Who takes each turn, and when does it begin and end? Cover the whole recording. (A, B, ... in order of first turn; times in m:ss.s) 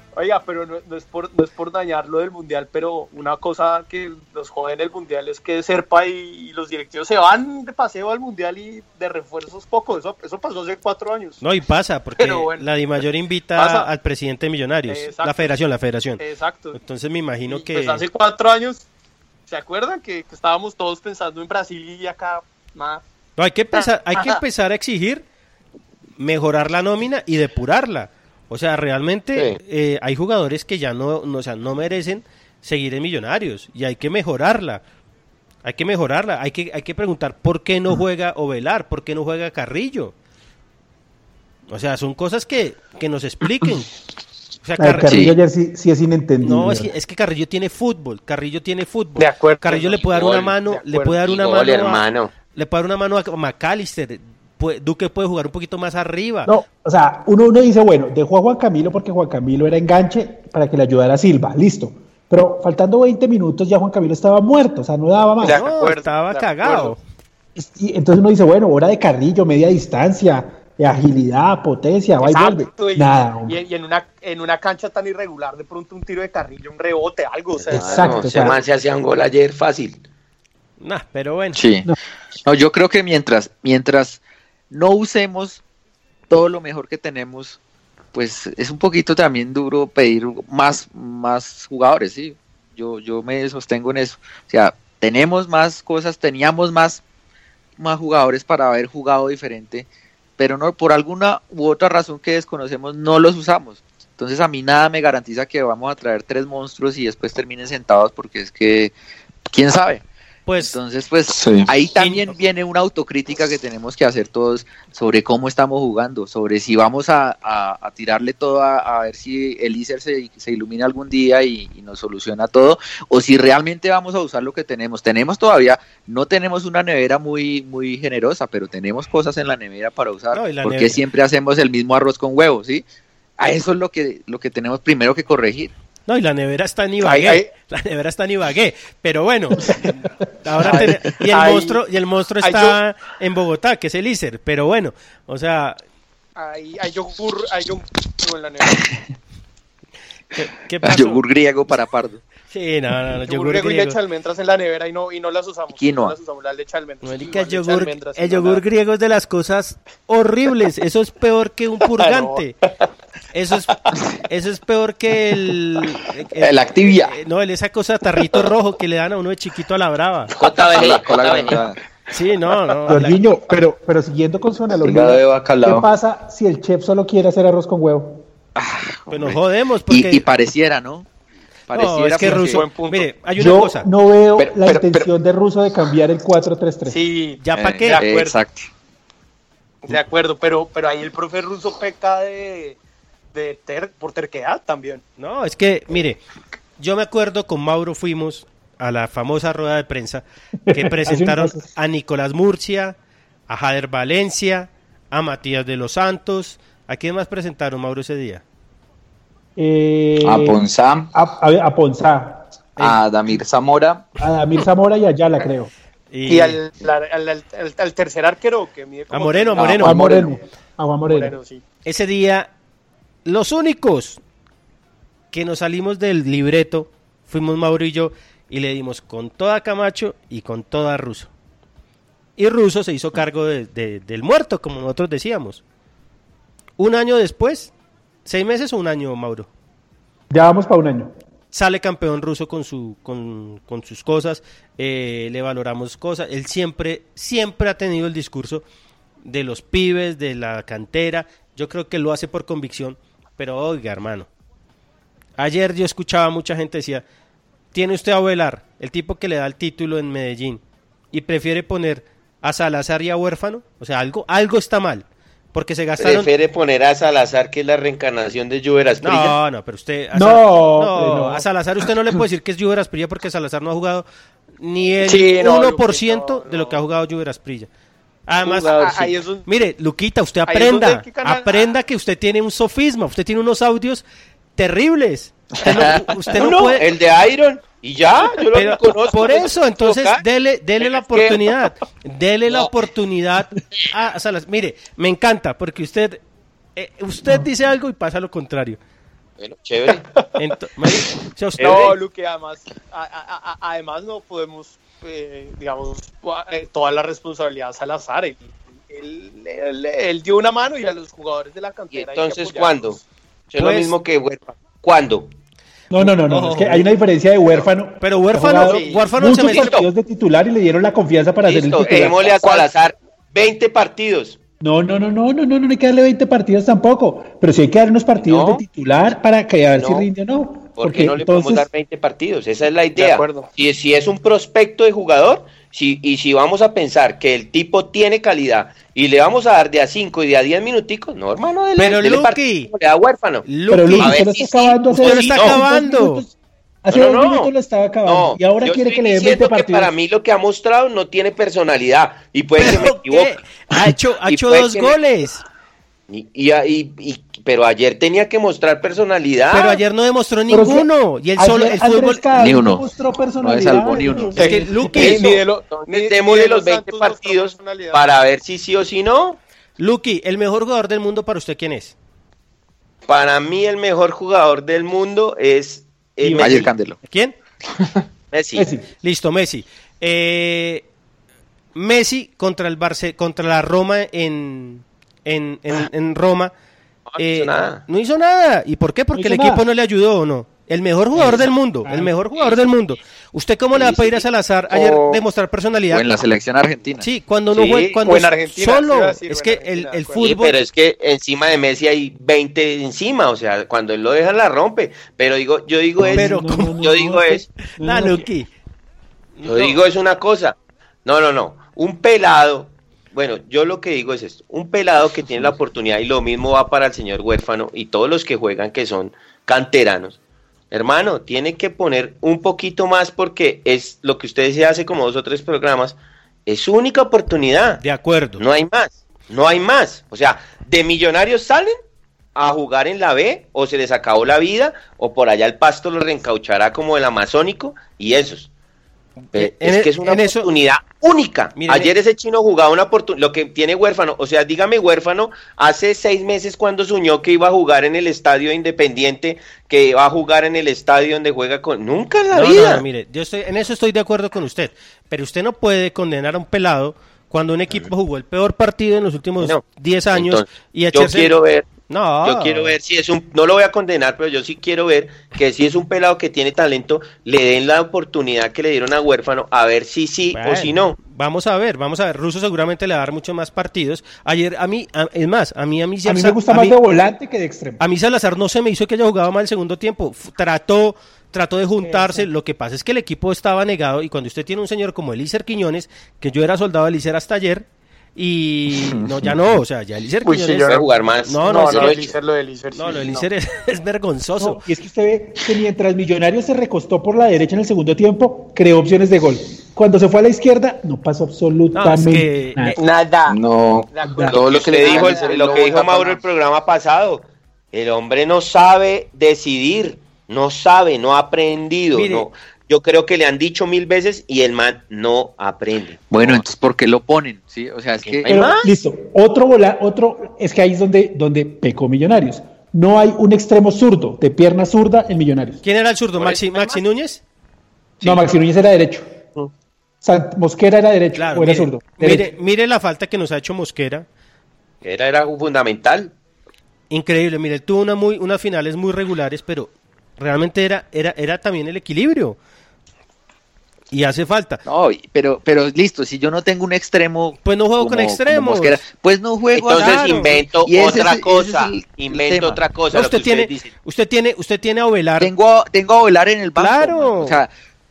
0:00.2-0:11.4 A
0:11.4-0:16.2 B
0:12.2-0:12.6 A
0:13.6-0:13.9 A
0:14.9-0:15.5 A
0:16.2-0:16.8 A
0:16.7-0:18.0 B
0:17.5-0:18.9 A
0:19.5-0:23.0 A
0:23.4-0:25.2 B
0:23.7-0:24.4 A
0:26.2-0:34.8 B
0:29.3-0:29.6 C
0:35.6-0:40.1 B
0:41.7-0:43.9 B
0:44.6-0:45.3 B
0:44.8-0:46.9 D
0:46.4-0:56.5 B
0:49.2-0:51.2 A
0:50.0-0:50.5 C
0:51.2-0:52.3 C
0:56.4-1:05.6 D
1:05.4-1:07.0 A
1:05.4-1:07.0 B
1:07.6-1:13.6 D
1:12.2-1:18.2 A
1:17.7-1:20.0 C
1:17.7-1:18.6 D
1:20.8-1:21.6 B
1:21.6-1:21.9 E
1:22.4-1:25.6 E
1:26.3-1:27.6 E
1:28.1-1:37.0 E
1:37.8-1:48.9 E
1:49.5-1:50.0 E
1:50.5-1:50.8 B
1:50.6-2:12.8 E
1:51.3-1:51.7 F
1:52.0-1:52.3 B
2:10.3-2:11.0 B
2:13.4-2:15.7 E
2:16.1-2:19.7 B
2:17.0-2:17.5 A
2:20.4-2:25.8 B
2:20.6-2:21.8 A
2:22.4-2:22.8 A
2:26.4-2:28.9 A
2:30.3-2:31.2 B
2:30.8-2:32.2 E
2:32.5-2:34.0 B
2:33.3-2:38.6 A
2:35.8-2:36.1 E
2:37.0-2:42.6 B
2:41.8-2:42.8 A
2:43.3-2:50.3 B
2:46.4-2:47.1 F
2:50.4-2:51.6 C
2:50.4-2:51.8 F
2:50.9-2:51.6 E
2:52.1-2:53.2 B
2:52.9-2:58.2 D
2:54.8-2:55.9 F
2:58.6-3:01.1 E
2:59.1-3:00.3 B
3:01.7-3:02.6 E
3:01.7-3:03.9 B
3:02.2-3:03.1 A
3:03.4-3:07.0 D
3:04.4-3:05.1 F
3:06.9-3:08.4 A
3:07.4-3:08.0 B
3:07.6-3:08.7 E
3:09.8-3:12.8 A
3:13.3-3:15.0 A
3:15.2-3:16.2 B
3:16.8-3:23.0 B
3:20.7-3:21.6 D
3:23.5-3:28.4 B
3:29.6-3:30.6 D
3:30.2-3:31.1 F
3:31.1-3:33.0 D
3:32.8-3:34.2 F
3:34.2-3:35.7 D
3:36.1-3:36.6 B
3:36.3-3:40.4 A
3:39.1-3:40.0 B
3:39.6-3:40.4 F
3:39.8-3:41.4 D
3:41.0-3:41.6 A
3:41.8-3:42.5 B
3:43.2-3:44.2 B
3:45.3-3:51.3 B
3:52.4-3:55.6 B
3:56.8-3:57.7 B
3:58.2-3:59.5 B
4:00.3-4:01.1 D
4:01.5-4:08.6 B
4:09.2-4:14.3 B
4:15.4-4:17.0 B
4:17.7-4:26.3 B
4:26.0-4:29.4 C
4:29.0-4:34.0 B
4:30.1-4:31.4 D
4:34.6-4:37.7 B
4:35.0-4:36.8 A
4:38.3-4:44.0 B
4:38.5-4:39.5 A
4:38.7-4:39.1 C
4:40.5-4:41.7 A
4:44.6-4:46.8 B
4:45.6-4:46.0 E
4:46.4-4:50.2 C
4:48.5-4:56.2 B
4:50.8-4:51.4 C
4:56.8-4:58.8 B
4:59.4-5:00.0 C
5:00.4-5:01.9 B
5:01.6-5:01.9 C
5:01.6-5:13.0 A
5:11.9-5:15.3 C
5:13.6-5:13.9 B
5:15.9-5:22.3 D
5:16.0-5:16.9 B
5:18.0-5:19.7 B
5:18.5-5:19.7 A
5:19.3-5:19.9 C
5:21.4-5:24.4 C
5:21.8-5:22.7 A
5:24.6-5:31.7 D
5:28.2-5:28.6 C
5:29.8-5:30.1 C
5:30.8-5:45.6 C
5:33.0-5:33.5 A
5:41.8-5:42.7 B
5:43.4-5:44.2 B
5:43.7-5:46.3 D
5:44.9-5:46.2 B
5:46.8-5:49.9 D
5:46.9-5:47.5 C
5:48.0-5:53.6 C
5:52.6-5:55.4 B
5:54.2-5:55.0 C
5:56.1-5:59.8 C
5:59.5-6:02.2 B
6:00.5-6:05.1 D
6:02.4-6:02.9 E
6:03.4-6:04.4 F
6:03.4-6:04.4 E
6:04.4-6:05.3 B
6:04.4-6:08.0 A
6:04.9-6:09.4 C
6:09.8-6:11.9 B
6:13.1-6:16.7 C
6:16.2-6:16.6 D
6:16.4-6:17.0 E
6:17.1-6:17.4 B
6:18.3-6:18.7 C
6:18.5-6:18.8 D
6:19.0-6:20.8 B
6:21.7-6:26.5 B
6:27.1-6:27.8 C
6:27.2-6:36.1 B
6:29.1-6:29.6 D
6:31.2-6:32.2 D
6:33.7-6:34.2 C
6:34.7-6:35.1 A
6:35.9-6:37.1 E
6:37.0-6:40.6 B
6:37.5-6:38.0 C
6:37.7-6:40.2 A
6:40.2-6:47.4 C
6:46.0-6:48.3 D
6:46.1-6:46.9 B
6:47.8-6:48.5 B
6:49.4-6:49.8 B
6:49.4-7:00.2 C
7:00.7-7:07.8 C
7:07.8-7:08.4 B
7:08.4-7:11.8 C
7:12.3-7:18.5 C
7:19.3-7:20.4 B
7:19.3-7:32.8 C
7:21.6-7:21.9 B
7:32.3-7:41.4 B
7:40.1-7:41.7 C
7:41.9-7:42.8 B
7:42.2-7:51.0 C
7:50.3-7:56.8 B
7:56.0-7:57.8 D
7:57.8-8:12.0 B
8:01.8-8:02.3 D
8:10.2-8:10.9 A
8:10.7-8:12.1 C
8:11.4-8:13.3 A
8:12.7-8:14.6 B
8:14.4-8:22.8 D
8:21.7-8:22.8 B
8:22.8-8:23.4 A
8:23.3-8:26.2 F
8:23.9-8:25.9 A
8:24.3-8:36.4 C
8:31.9-8:32.3 B
8:36.1-8:38.3 E
8:38.0-8:38.7 C
8:38.2-8:45.6 D
8:45.6-8:47.2 B
8:46.2-8:46.8 C
8:48.0-8:48.4 C
8:48.0-8:49.0 D
8:50.0-8:52.3 D
8:51.1-8:54.0 B
8:54.8-8:56.1 C
8:56.9-9:02.4 B
9:03.9-9:04.6 B
9:04.6-9:12.6 E
9:07.4-9:08.8 B
9:09.5-9:13.7 C
9:09.7-9:10.4 B
9:12.9-9:15.3 B
9:15.2-9:17.5 E
9:16.6-9:17.4 B